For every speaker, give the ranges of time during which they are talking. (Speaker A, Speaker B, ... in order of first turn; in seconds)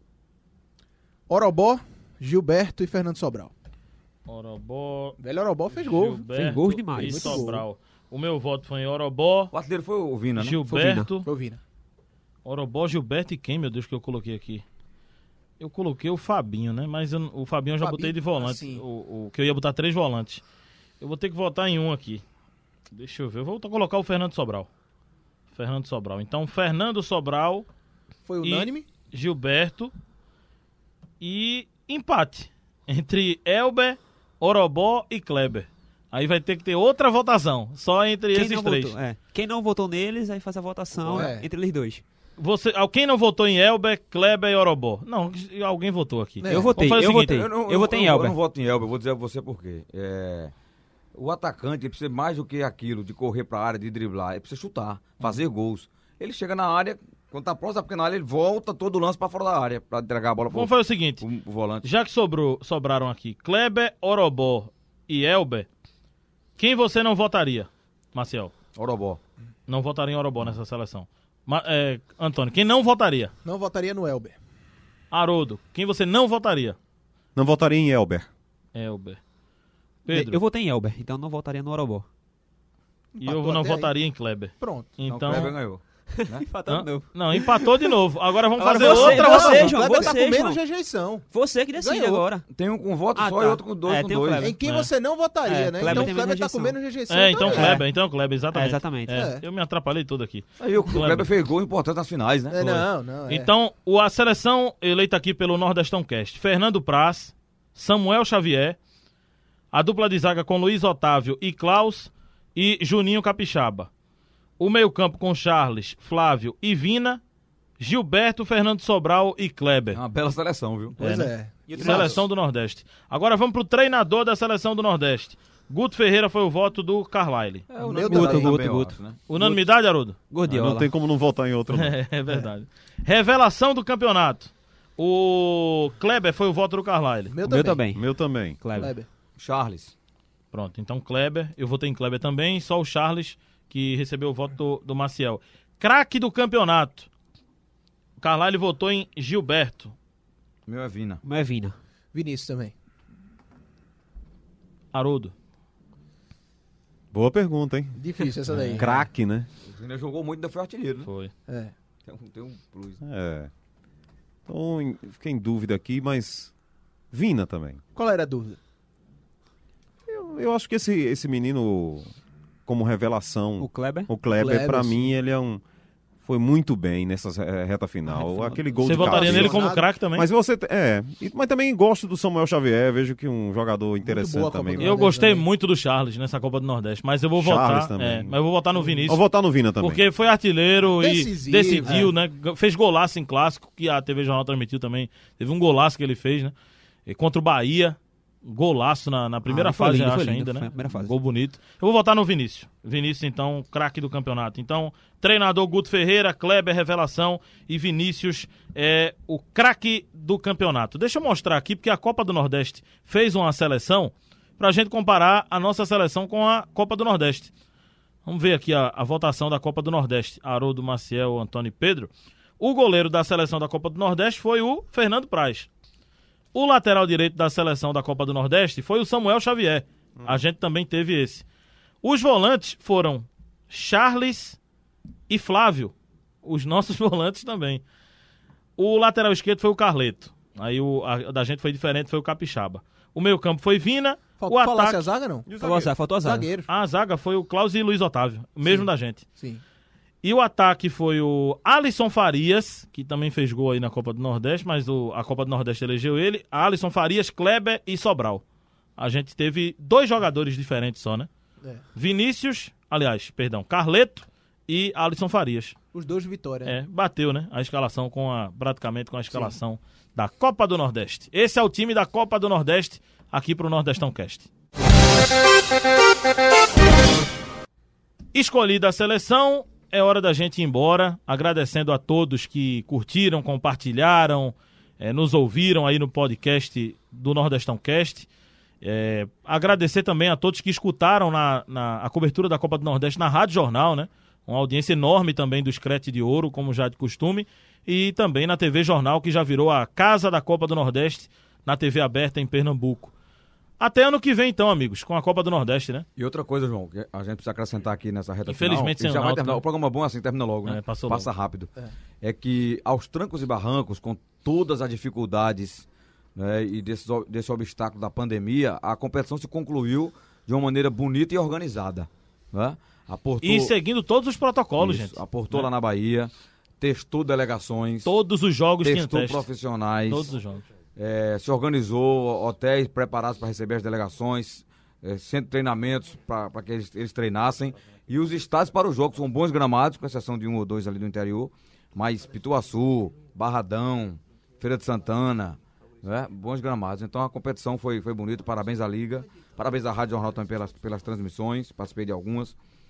Speaker A: 1.3-3.5, 5.2-6.3, 6.9-7.6, 11.2-11.6, 17.8-18.8, 28.2-28.8, 41.1-41.5, 46.4-46.8, 73.4-74.4, 83.1-83.9, 84.6-85.0, 88.6-92.3, 94.4-97.8, 99.1-99.4, 102.5-103.5, 121.0-122.2, 127.8-128.6, 137.3-137.8, 138.7-139.1, 152.1-152.7, 157.9-159.1, 161.5-161.7, 167.9-168.6, 174.3-175.1, 178.8-179.9, 184.0-185.4, 188.8-189.0, 191.0-192.1, 244.4-245.5, 246.2-246.7, 248.6-249.6, 265.9-266.7
Speaker B: 4.3-5.2, 5.7-9.5, 10.3-11.2, 12.4-14.6, 15.6-20.4, 21.0-22.2, 22.9-24.7, 25.5-27.6, 28.4-29.9, 31.2-39.0, 42.4-47.5, 60.5-61.2, 61.8-65.7, 66.6-68.5, 69.7-73.3, 75.1-76.8, 78.7-79.2, 80.0-80.4, 83.2-85.5, 86.7-90.0, 94.6-94.9, 95.8-96.1, 97.1-101.2, 103.3-108.8, 109.7-113.9, 114.6-117.2, 117.8-120.0, 121.0-127.7, 129.3-130.2, 131.7-137.3, 140.5-147.1, 148.2-149.9, 154.9-155.3, 161.0-161.3, 178.8-180.3, 184.8-189.2, 189.8-196.5, 197.1-217.5, 218.2-225.7, 226.5-231.4, 232.0-234.6, 235.3-237.8, 238.8-245.0, 246.7-249.2, 250.2-258.4, 259.0-261.3, 261.9-265.8, 266.6-274.5, 278.3-288.3, 288.8-303.1, 303.8-306.1, 308.5-309.6, 310.6-311.3, 323.4-325.7, 328.0-329.4, 330.1-330.6
Speaker C: 6.3-7.5, 10.7-11.1, 38.3-42.0, 46.5-48.4, 80.1-82.0, 86.1-87.9, 88.6-90.6, 91.3-92.4, 93.1-94.5, 95.5-96.8, 97.3-97.8, 98.5-99.2, 127.9-129.0, 130.3-130.9, 137.4-138.0, 138.6-139.0, 151.2-151.7, 173.6-174.1, 199.4-201.1, 245.5-246.5
Speaker D: 9.5-10.6, 47.3-50.5, 51.1-61.9, 68.7-69.2, 85.0-86.4, 92.5-94.5, 100.6-102.9, 119.9-121.0, 121.7-122.2, 127.7-129.5, 139.4-139.9, 150.7-151.2, 159.7-161.1, 162.1-163.0, 306.2-311.7, 312.2-323.7, 324.8-328.1, 328.8-330.3, 330.9-352.6
Speaker E: 77.3-78.3, 130.5-132.0, 137.9-138.6, 157.1-158.0, 158.7-159.5, 163.0-163.5, 164.5-166.5, 167.1-167.8, 170.1-172.1, 172.7-175.6, 176.2-184.9, 187.4-188.4, 189.1-190.0, 245.5-245.9